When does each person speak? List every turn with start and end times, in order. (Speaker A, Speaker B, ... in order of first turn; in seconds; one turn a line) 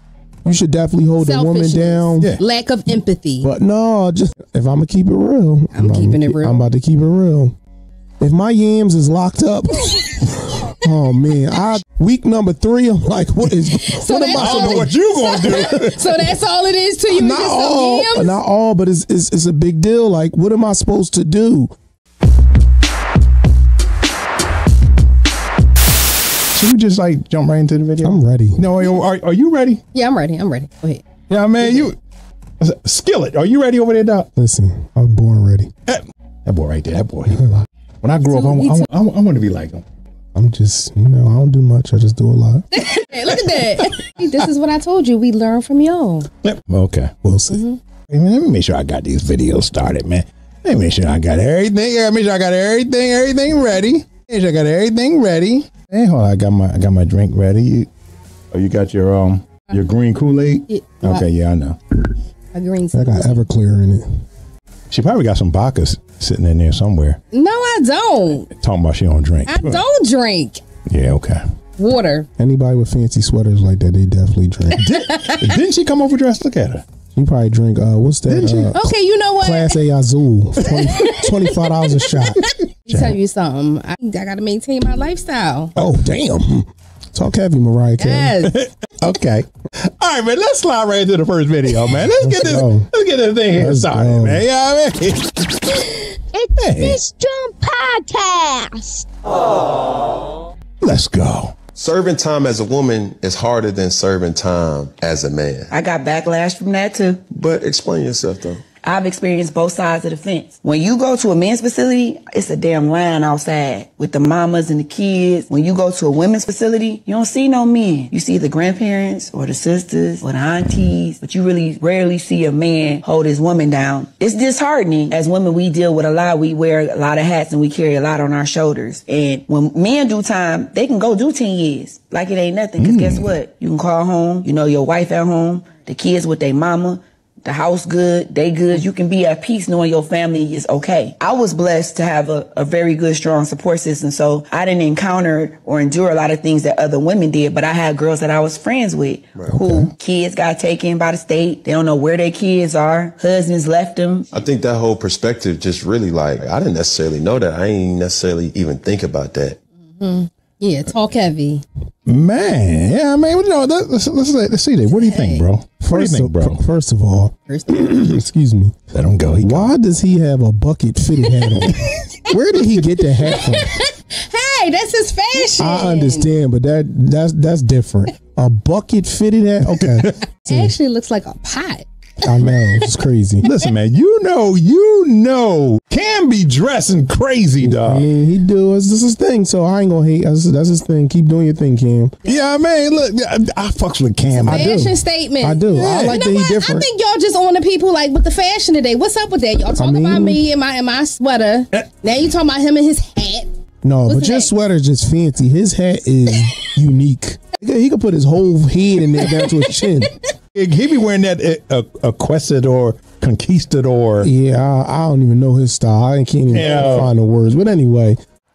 Speaker A: 0.4-2.3
Speaker B: 1.2-3.5
Speaker A: 3.4-7.5
Speaker B: 5.7-6.6
Speaker A: 8.2-14.9
Speaker B: 13.7-18.4
Speaker C: 14.3-16.3
Speaker A: 17.1-21.7
Speaker C: 26.5-29.8
Speaker A: 28.0-28.6
Speaker B: 29.9-31.0
Speaker C: 31.3-32.0
Speaker C: 32.6-34.3
Speaker A: 34.4-35.7
Speaker C: 35.9-37.5
Speaker A: 37.3-37.6
Speaker C: 38.0-39.8
Speaker B: 38.3-38.9
Speaker A: 40.3-42.6
Speaker B: 42.7-46.3
Speaker C: 43.3-43.9
Speaker C: 46.4-47.1
Speaker A: 47.2-47.6
Speaker B: 47.5-47.8
Speaker C: 48.1-57.9
Speaker C: 58.5-61.8
Speaker B: 60.7-61.2
Speaker B: 62.5-63.5
Speaker A: 62.9-64.0
Speaker C: 64.9-67.2
Speaker B: 67.3-68.5
Speaker C: 68.6-69.8
Speaker B: 69.5-70.6
Speaker C: 70.9-71.4
Speaker B: 71.8-72.3
Speaker A: 72.4-74.8
Speaker C: 74.8-76.8
Speaker B: 75.1-75.5
Speaker A: 77.1-82.4
Speaker C: 78.3-78.7
Speaker B: 78.7-79.8
Speaker B: 80.6-85.7
Speaker C: 82.9-83.2
Speaker A: 85.8-88.4
Speaker B: 88.0-88.6
Speaker C: 88.4-95.9
Speaker A: 92.2-92.9
Speaker A: 93.5-94.4
Speaker D: 96.3-99.0
Speaker C: 96.5-97.1
Speaker C: 100.8-101.5
Speaker E: 101.8-105.7
Speaker F: 105.7-107.2
Speaker E: 107.3-108.6
Speaker F: 108.8-154.3
Speaker C: 132.8-133.3
Speaker C: 149.5-149.9
Speaker E: 154.3-159.6
Speaker B: 160.0-161.6
Speaker C: 162.1-166.6
Speaker B: 164.9-165.4
Speaker A: 165.8-168.7
Speaker B: 167.5-167.9
Speaker C: 168.9-169.7
Speaker A: 169.4-171.8
Speaker B: 171.3-176.3
Speaker A: 172.3-173.7
Speaker A: 175.6-180.8
Speaker B: 180.4-182.9
Speaker A: 182.2-183.5
Speaker C: 183.4-188.1
Speaker A: 187.6-192.1
Speaker C: 192.2-194.7
Speaker B: 194.4-203.5
Speaker A: 194.4-196.9
Speaker C: 195.7-196.2
Speaker A: 199.7-200.4
Speaker A: 203.8-210.1
Speaker B: 204.1-204.5
Speaker B: 209.2-209.8
Speaker C: 210.5-214.3
Speaker A: 214.2-218.2
Speaker C: 216.5-217.1